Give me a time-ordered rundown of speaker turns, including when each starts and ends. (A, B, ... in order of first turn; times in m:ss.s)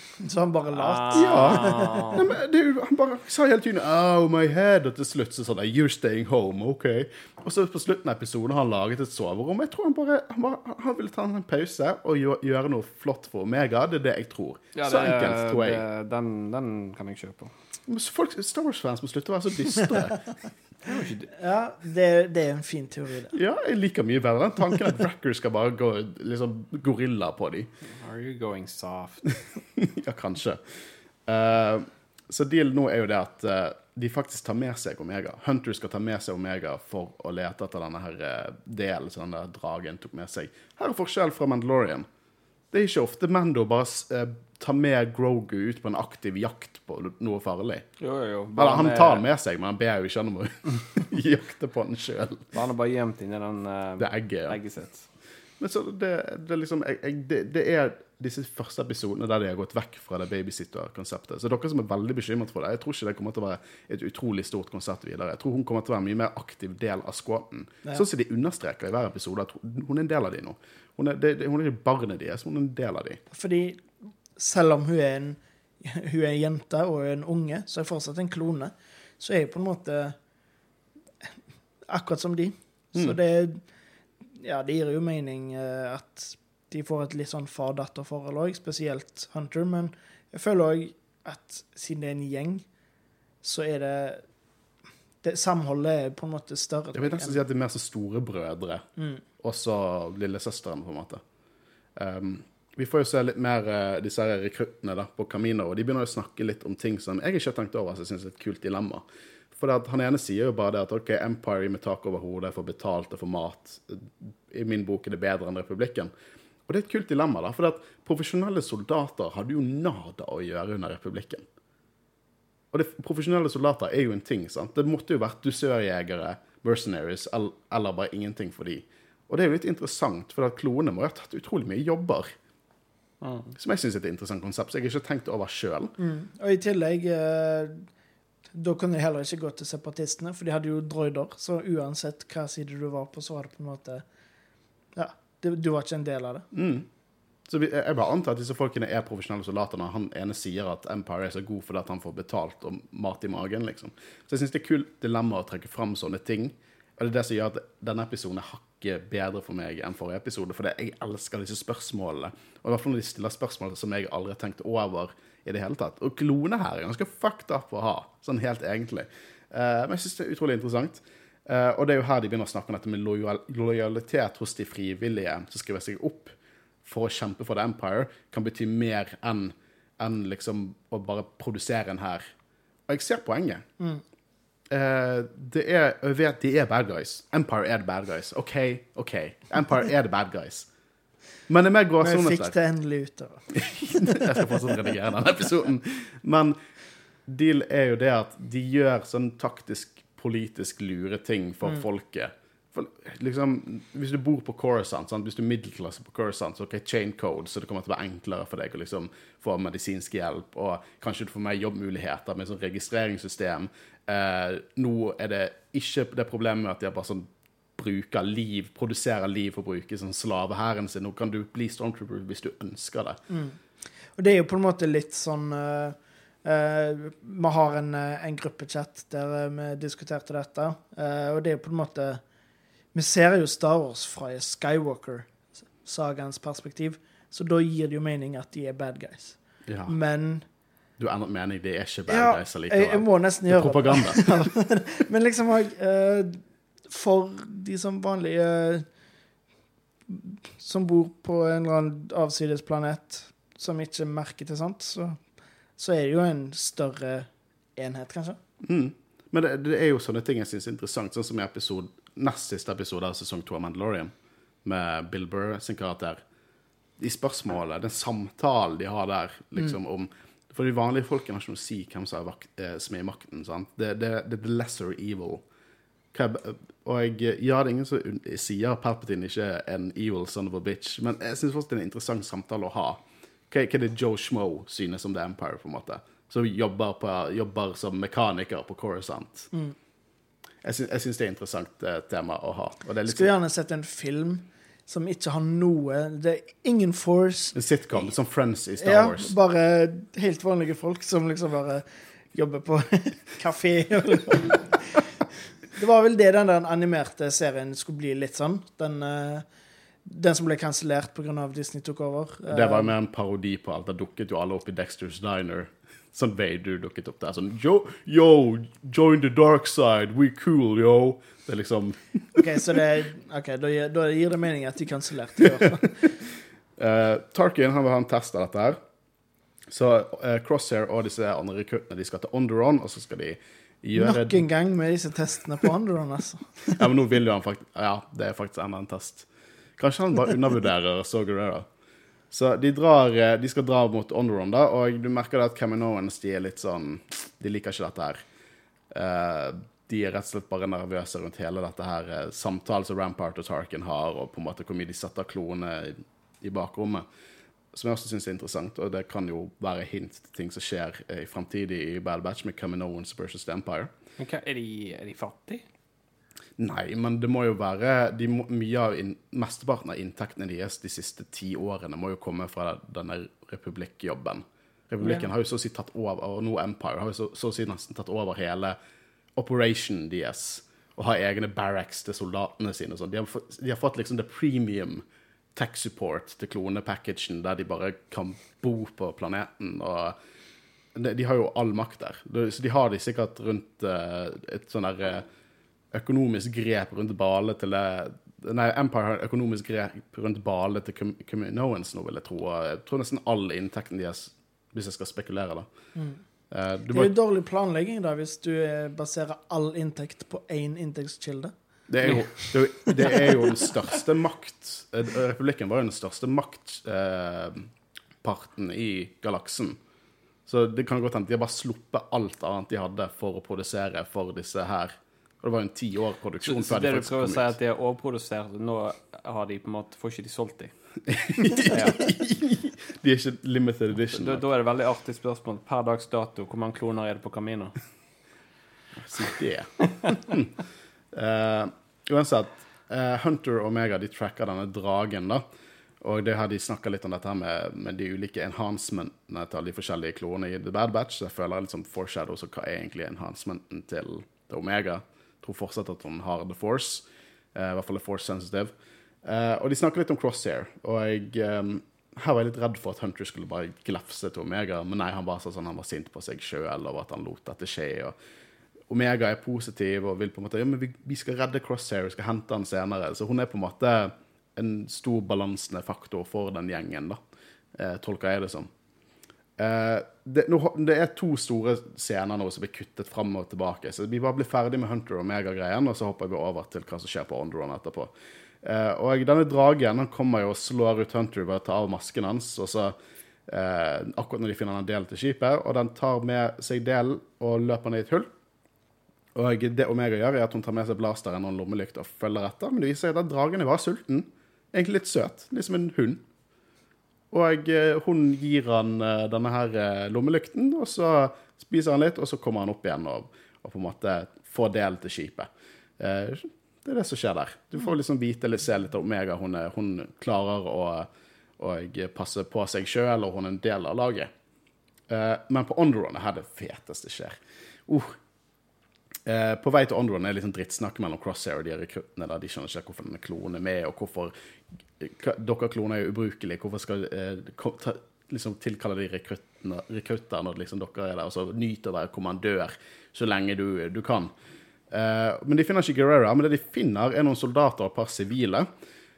0:00.2-0:02.2 A
0:00.7-0:02.2 B
0:01.1-0:15.8 C
0:14.8-0:17.5 B
0:17.9-0:20.2 C
0:20.8-0:21.3 B
0:21.4-0:23.4 A
0:23.3-0:27.7 C
0:27.9-0:29.3 B
0:29.8-0:30.6 C
0:31.3-0:42.1 C
0:42.7-0:47.9 C
0:48.0-0:49.2 B
0:48.6-0:52.5 C
0:52.5-0:55.1 B
0:54.0-0:54.6 C
0:55.6-1:13.2 C
1:13.3-1:20.2 A
1:21.9-1:23.6 A
1:24.4-1:32.7 A
1:33.4-1:34.2 A
1:35.2-1:37.4 A
1:36.9-1:38.8 C
1:39.0-1:39.2 A
1:39.4-1:41.2 C
1:42.0-1:56.1 C
1:56.7-2:01.4 C
2:02.7-2:12.3 C
2:13.2-2:13.5 B
2:13.6-2:15.9 C
2:16.0-2:17.9 A
2:18.6-2:24.0 A
2:25.0-2:26.5 A
2:26.5-2:26.9 C
2:27.5-2:56.3 C
2:56.8-3:02.3 C
3:02.9-3:03.6 C
3:04.7-3:10.7 C
3:11.5-3:12.5 C
3:12.0-3:14.5 A
3:13.5-3:16.6 C
3:17.3-3:43.2 C
3:43.3-3:43.6 A
3:44.2-3:52.2 A
3:52.9-4:00.4 A
3:59.7-4:00.0 C
4:01.0-4:04.5 C
4:02.1-4:08.8 A
4:10.1-4:15.2 A
4:15.8-4:18.4 A
4:18.6-4:24.1 C
4:24.6-4:26.2 C
4:27.0-4:35.4 C
4:36.1-4:49.5 C
4:50.6-4:53.3 C
4:53.1-4:57.6 A
4:57.5-4:59.3 C
4:58.8-5:05.0 A
5:05.7-5:09.4 A
5:10.0-5:12.9 A
5:12.5-5:22.6 C
5:22.4-5:26.1 A
5:25.4-5:25.7 C
5:26.8-5:28.8 C
5:29.7-5:34.5 C
5:34.0-5:36.9 A
5:36.8-5:41.7 C
5:42.3-5:48.2 C
5:48.9-5:57.0 C
5:57.7-6:03.9 C
6:04.2-6:05.6 B
6:06.6-6:18.8 C
6:19.4-6:30.2 C
6:31.0-6:35.3 C
6:35.9-6:45.7 C
6:46.0-6:46.2 A
6:46.5-6:47.1 C
6:46.9-6:51.5 A
6:51.9-6:57.7 C
6:52.1-6:53.7 A
6:58.2-6:59.8 C
7:00.5-7:07.5 C
7:06.4-7:10.7 B
7:11.1-7:14.4 C
7:11.4-7:12.1 B
7:14.1-7:17.8 B
7:19.0-7:20.6 C
7:21.1-7:25.4 C
7:26.0-7:38.7 C
7:39.2-7:48.2 C
7:48.9-7:57.2 C
7:57.8-7:58.7 C
7:59.6-8:13.0 C
8:13.5-8:18.3 C
8:19.4-8:26.2 C
8:27.3-8:44.3 C
8:45.1-8:48.2 C
8:49.2-8:54.3 C
8:55.0-9:04.3 C
9:04.9-9:08.7 C